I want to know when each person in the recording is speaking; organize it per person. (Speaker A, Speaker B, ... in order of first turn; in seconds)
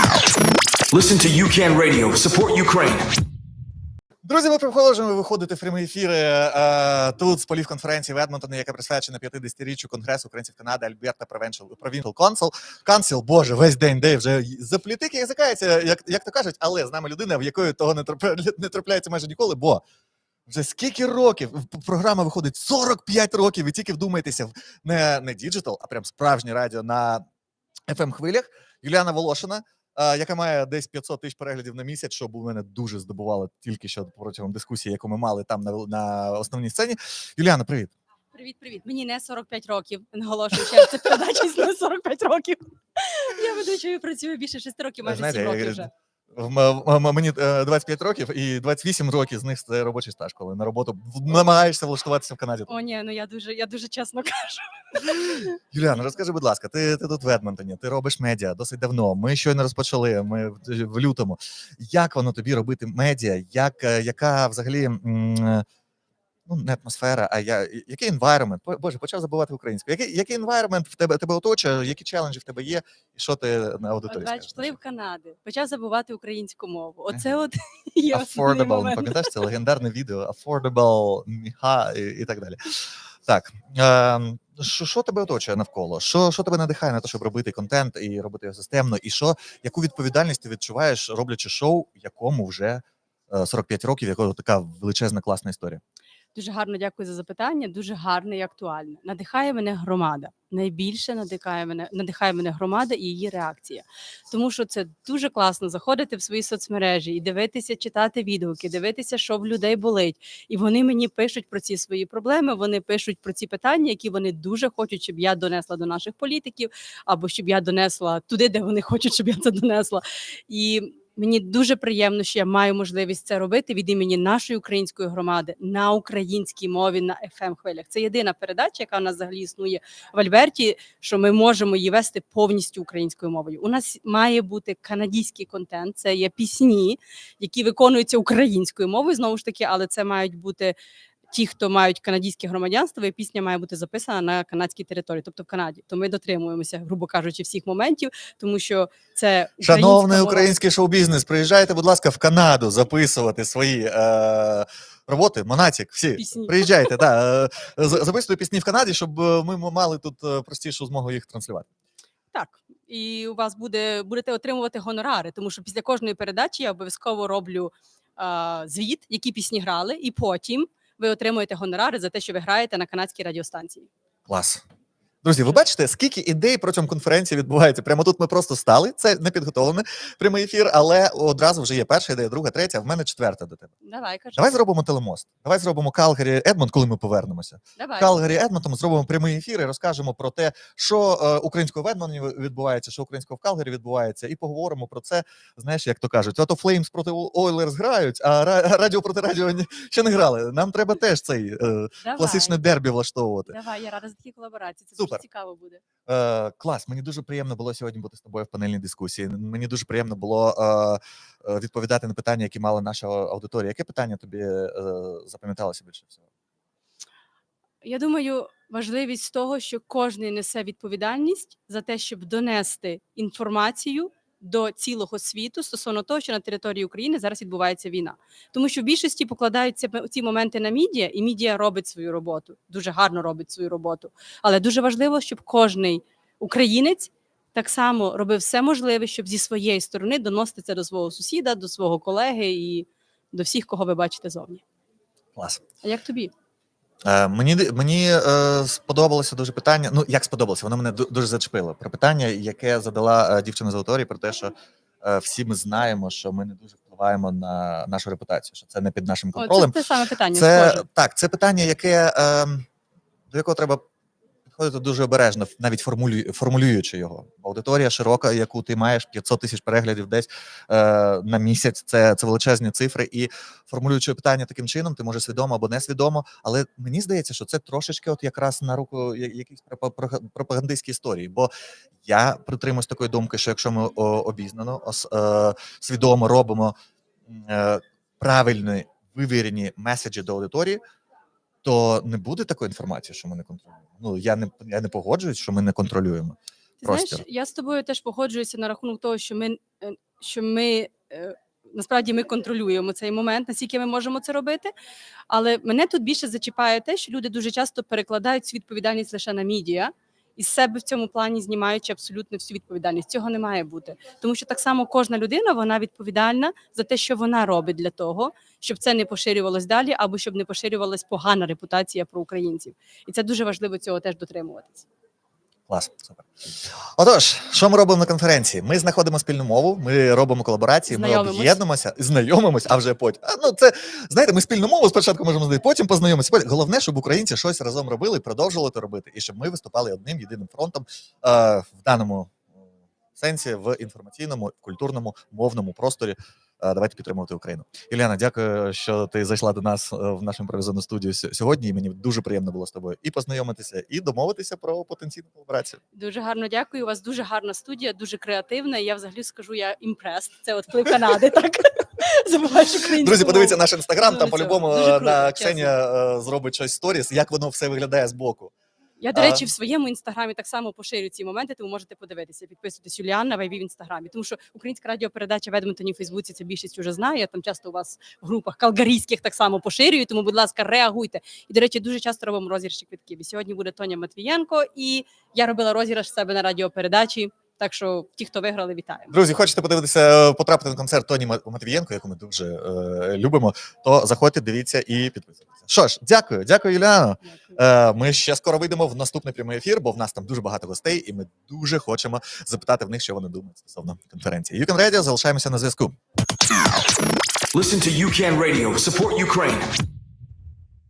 Speaker A: 0.9-3.2, 407.5-409.8
Speaker B: 4.2-19.8, 20.5-27.2, 27.9-37.9, 45.0-52.7, 55.3-65.7, 66.5-74.8, 78.1-95.8, 149.6-161.7, 174.3-174.6, 175.2-183.7, 184.3-203.6, 206.1-216.2, 245.4-245.6, 247.1-259.8, 260.3-262.7, 263.3-263.8, 264.5-281.5, 282.0-286.7, 287.3-290.8, 291.6-297.2, 325.7-326.2, 327.0-355.8, 363.0-368.5, 369.1-369.5, 389.1-406.0
Speaker C: 38.3-45.9, 52.7-55.5, 74.1-79.3, 96.3-140.8, 141.3-150.5, 156.2-156.9, 162.3-173.9, 183.8-184.6, 187.8-188.3, 202.0-202.6, 203.5-205.8, 217.8-244.6, 245.8-246.3, 259.4-260.9, 296.8-304.7, 305.3-324.9, 330.9-331.6, 355.9-365.7, 369.0-389.1, 397.3-397.6